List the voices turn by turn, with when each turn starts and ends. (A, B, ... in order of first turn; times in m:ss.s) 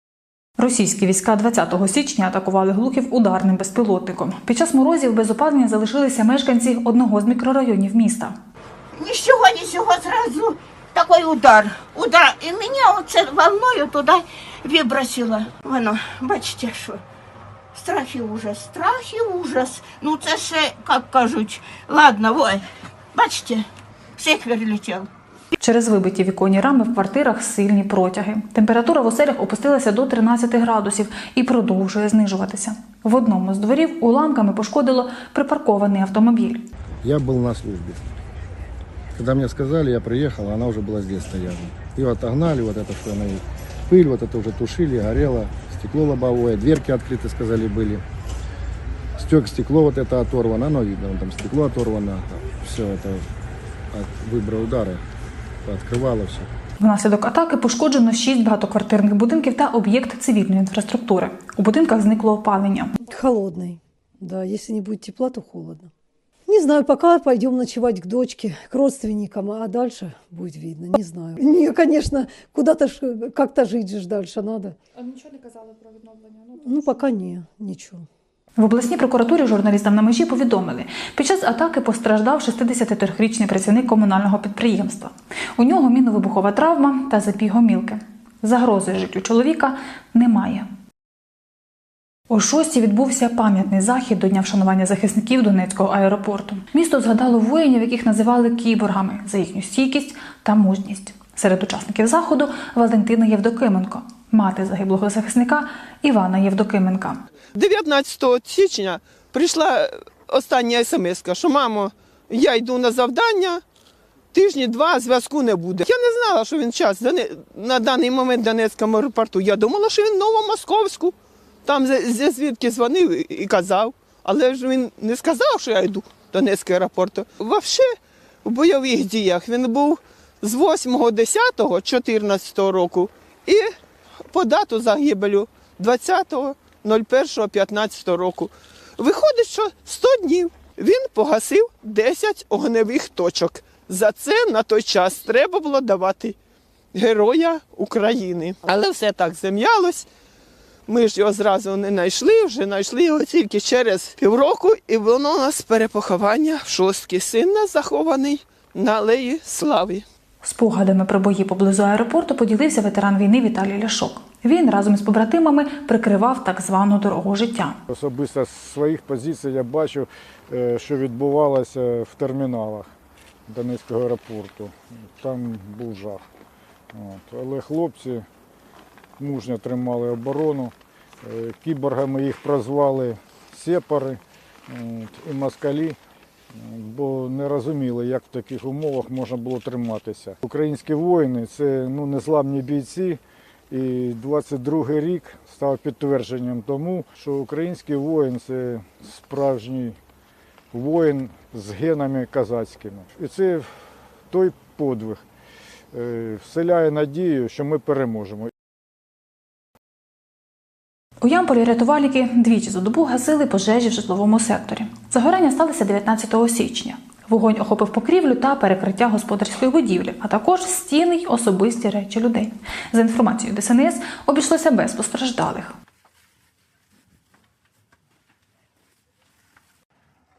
0:00.6-0:08.3 A
0:09.0-0:17.0 B
0:17.7-0:23.7 B
0:24.2-0:25.1 B
0:25.6-0:36.6 A
0:37.0-0:38.0 C
0:39.1-0:48.0 C
0:49.2-0:53.3 C
0:53.9-0:55.0 C
0:55.6-0:56.5 C
0:56.8-1:03.0 A
1:03.1-1:05.9 D
1:06.5-1:14.7 D
1:15.0-1:17.0 E
1:16.6-1:18.0 D
1:18.6-1:30.7 A
1:32.3-1:47.2 A
1:47.5-1:53.6 F
1:54.3-2:07.9 F
2:08.4-2:13.7 F
2:14.3-2:26.4 F
2:26.9-2:30.0 F
2:30.9-2:40.0 F
2:40.4-2:47.8 A
2:47.9-2:52.9 G
2:53.5-2:56.2 G
2:56.9-2:58.2 G
2:59.2-3:06.0 G
3:06.5-3:20.0 G
3:20.7-3:23.7 G
3:24.3-3:25.2 G
3:25.9-3:28.5 G
3:31.2-3:45.7 A